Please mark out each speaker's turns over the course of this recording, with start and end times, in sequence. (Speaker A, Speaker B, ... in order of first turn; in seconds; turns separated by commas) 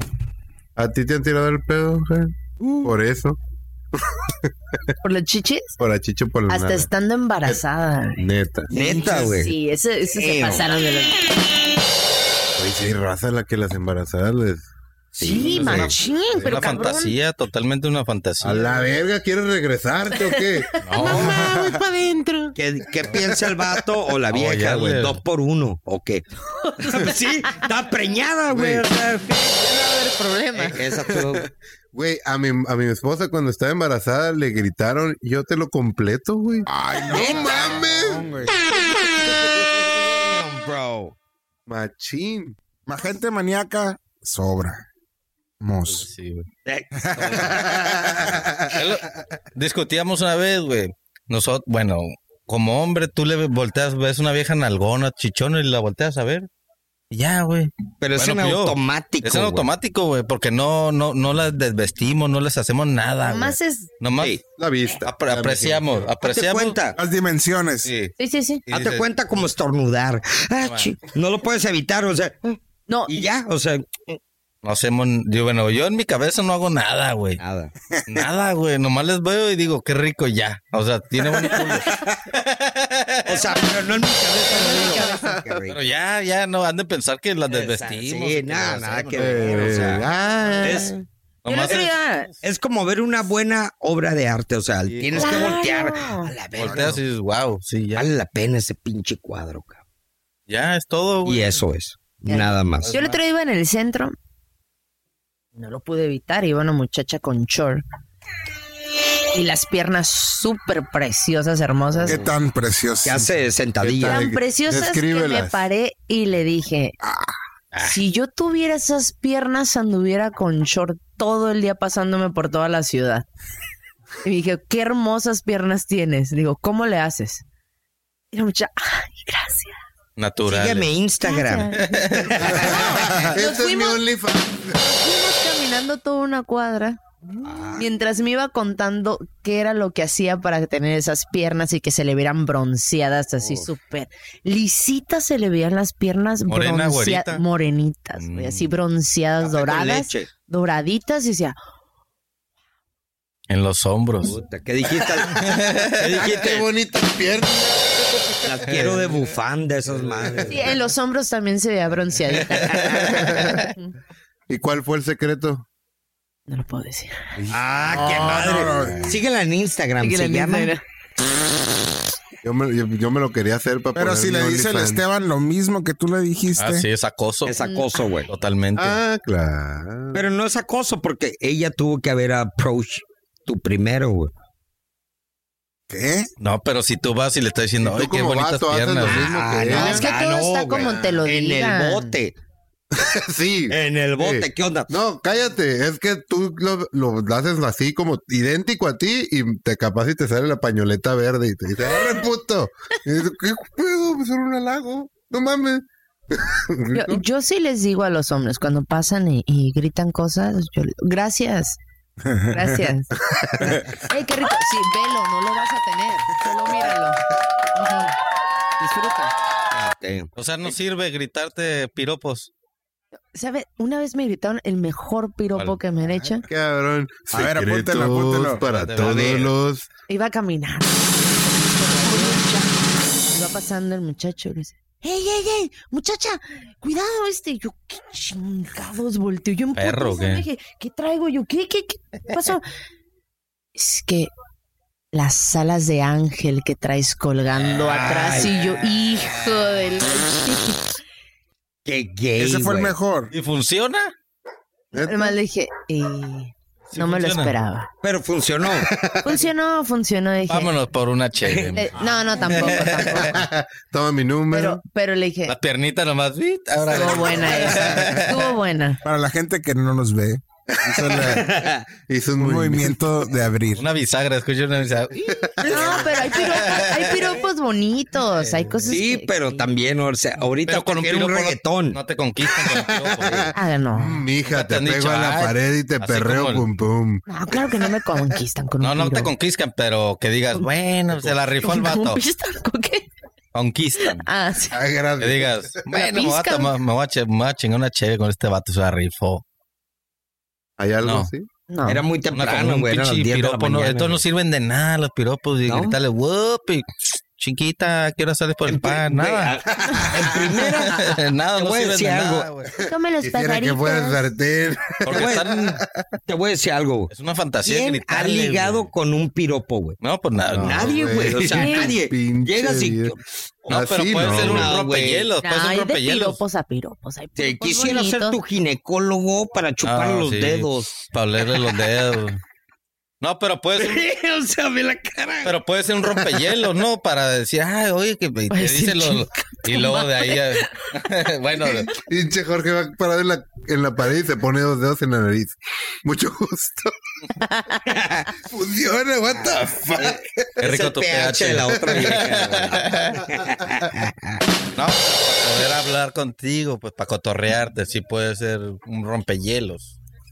Speaker A: 0.8-3.4, Speaker A: 4.0-4.9, Speaker B: 5.0-5.8, Speaker A: 5.8-6.9, Speaker B: 6.5-8.2, Speaker A: 8.2-8.7, Speaker C: 8.7-9.5, Speaker D: 8.8-9.1, Speaker B: 9.0-11.2, Speaker C: 10.1-10.7, Speaker A: 12.6-14.7, Speaker C: 15.2-15.9, Speaker B: 15.2-17.1, Speaker A: 15.4-16.9, Speaker E: 16.4-18.6, Speaker A: 18.4-21.8, Speaker B: 20.1-22.5, Speaker E: 20.8-21.4, Speaker D: 21.1-21.8, Speaker C: 22.6-26.2, Speaker A: 23.1-23.7, Speaker E: 24.3-25.2, Speaker B: 26.5-27.7, Speaker C: 26.8-29.6, Speaker A: 28.5-28.9, Speaker B: 29.6-30.8, Speaker C: 30.5-31.5, Speaker A: 30.8-38.5, Speaker D: 36.7-38.5, Speaker C: 37.1-37.9, Speaker C: 39.0-41.1, Speaker A: 41.7-42.6, Speaker D: 42.9-44.8, Speaker D: 45.6-46.1, Speaker E: 45.9-46.5, Speaker C: 46.6-47.7, Speaker D: 47.0-48.5, Speaker A: 47.6-48.7, Speaker E: 48.7-56.5, Speaker E: 57.1-64.3, Speaker C: 58.0-59.7, Speaker B: 63.3-63.9, Speaker C: 64.2-64.4, Speaker A: 64.5-65.9, Speaker E: 65.0-66.8, Speaker C: 66.2-67.0, Speaker D: 67.0-67.9, Speaker E: 67.8-68.1, Speaker B: 68.2-68.6, Speaker E: 68.7-69.0, Speaker C: 68.7-74.2, Speaker E: 70.6-70.9, Speaker B: 72.9-73.2, Speaker E: 74.6-77.4, Speaker C: 77.4-77.7, Speaker E: 78.1-83.7, Speaker C: 81.5-82.2, Speaker C: 83.2-85.9, Speaker B: 84.5-85.4, Speaker A: 84.7-85.5, Speaker E: 85.7-90.8, Speaker C: 87.5-90.1, Speaker A: 89.2-91.0, Speaker C: 90.6-90.9, Speaker E: 91.4-92.4, Speaker B: 91.5-92.3, Speaker C: 92.4-97.0, Speaker E: 94.9-95.6, Speaker B: 95.2-96.3, Speaker E: 96.6-98.1, Speaker C: 97.9-99.8, Speaker E: 100.5-101.6, Speaker C: 101.2-102.9, Speaker B: 102.2-104.2, Speaker E: 102.8-103.2, Speaker B: 105.5-107.8, Speaker B: 109.3-112.3, Speaker D: 112.0-113.3, Speaker C: 113.0-114.3, Speaker A: 113.8-115.6, Speaker B: 114.0-117.0, Speaker D: 117.0-117.3, Speaker E: 117.7-118.0, Speaker B: 117.8-123.2, Speaker B: 124.2-127.4, Speaker B: 128.3-129.8, Speaker E: 130.2-130.9, Speaker C: 130.4-132.7, Speaker B: 131.2-134.0, Speaker E: 131.8-132.4, Speaker A: 132.4-134.8, Speaker B: 134.7-151.6, Speaker C: 137.4-137.8, Speaker A: 143.4-143.7, Speaker E: 146.5-147.4, Speaker E: 148.2-148.7, Speaker C: 149.4-150.3, Speaker E: 153.5-154.4, Speaker C: 154.2-156.6, Speaker E: 155.0-156.4, Speaker A: 156.1-158.7, Speaker C: 158.4-160.8, Speaker E: 158.7-159.1, Speaker A: 159.9-160.7, Speaker B: 160.5-163.9, Speaker E: 162.6-163.7, Speaker C: 162.7-163.1, Speaker A: 163.0-163.7, Speaker A: 164.5-165.6, Speaker B: 166.5-167.2, Speaker A: 167.5-169.1, Speaker C: 167.5-170.7, Speaker D: 167.9-169.2, Speaker B: 170.0-170.8, Speaker A: 172.4-175.0, Speaker D: 173.9-176.9, Speaker E: 176.6-177.6, Speaker C: 177.4-178.3, Speaker B: 177.6-178.2, Speaker E: 178.3-179.0, Speaker A: 178.8-180.3, Speaker C: 180.1-184.3, Speaker D: 185.9-186.3, Speaker E: 186.4-189.3, Speaker A: 187.8-190.1, Speaker C: 189.0-192.3, Speaker B: 189.7-192.2, Speaker A: 190.7-191.2, Speaker A: 192.9-207.2, Speaker C: 193.7-194.9, Speaker B: 206.9-211.8, Speaker D: 212.2-212.9, Speaker B: 212.5-213.1, Speaker A: 213.4-213.8, Speaker B: 213.9-217.2, Speaker B: 217.7-218.1, Speaker B: 218.8-219.3, Speaker C: 219.7-220.3, Speaker E: 220.3-222.5, Speaker B: 223.3-226.4, Speaker A: 226.4-229.9, Speaker D: 227.3-228.6, Speaker E: 228.6-229.5, Speaker C: 229.0-229.5, Speaker B: 230.1-232.7, Speaker B: 233.3-242.6, Speaker E: 239.8-240.4, Speaker B: 243.7-244.3, Speaker B: 245.1-250.9, Speaker C: 247.8-249.2, Speaker C: 251.8-252.9, Speaker D: 252.4-253.3, Speaker E: 253.3-254.1, Speaker B: 254.9-257.9, Speaker A: 254.9-255.3, Speaker E: 256.9-257.5, Speaker C: 258.0-258.9, Speaker A: 258.7-259.4, Speaker B: 259.2-260.7, Speaker E: 260.5-261.9, Speaker C: 261.4-262.8, Speaker B: 261.8-263.3, Speaker E: 262.4-263.4, Speaker A: 263.1-264.8, Speaker B: 264.5-265.5, Speaker E: 265.5-268.5, Speaker A: 266.9-268.1, Speaker B: 266.9-269.0, Speaker D: 269.0-271.4, Speaker A: 270.8-271.5, Speaker C: 271.2-271.9, Speaker A: 272.0-273.0, Speaker D: 272.4-273.9, Speaker E: 273.8-277.3, Speaker A: 275.2-276.0, Speaker C: 275.6-276.5, Speaker B: 275.6-279.7, Speaker C: 278.9-282.0, Speaker E: 280.6-283.5, Speaker A: 282.5-287.2, Speaker B: 283.5-284.2, Speaker E: 284.5-286.7, Speaker B: 287.3-289.3, Speaker E: 288.8-292.2, Speaker B: 291.6-293.1, Speaker E: 293.5-294.2, Speaker B: 294.0-294.8, Speaker A: 294.7-295.8, Speaker E: 295.2-299.4, Speaker B: 295.9-296.7, Speaker A: 300.8-301.5, Speaker E: 301.0-301.3, Speaker B: 301.7-302.0, Speaker C: 301.9-304.2, Speaker E: 302.3-309.6, Speaker C: 305.6-305.9, Speaker C: 308.6-312.5, Speaker A: 309.9-310.5, Speaker E: 310.6-312.7, Speaker A: 312.8-316.0, Speaker B: 312.8-314.2, Speaker E: 315.0-315.8, Speaker C: 315.1-317.1, Speaker E: 317.1-318.9, Speaker C: 317.6-319.9, Speaker E: 320.0-321.2, Speaker C: 320.5-325.3, Speaker A: 320.5-323.1, Speaker B: 321.5-321.9, Speaker A: 323.7-324.8, Speaker E: 323.7-326.4, Speaker B: 325.4-328.4, Speaker C: 327.4-330.9, Speaker E: 329.8-332.4, Speaker E: 333.2-334.1, Speaker C: 333.8-335.5, Speaker E: 335.4-341.9, Speaker B: 338.5-340.9, Speaker A: 341.6-346.9, Speaker B: 347.4-347.9, Speaker C: 347.9-348.3, Speaker A: 348.4-350.6, Speaker C: 349.3-354.4, Speaker E: 350.6-353.3, Speaker A: 351.7-352.3, Speaker A: 353.3-353.9, Speaker E: 354.7-359.9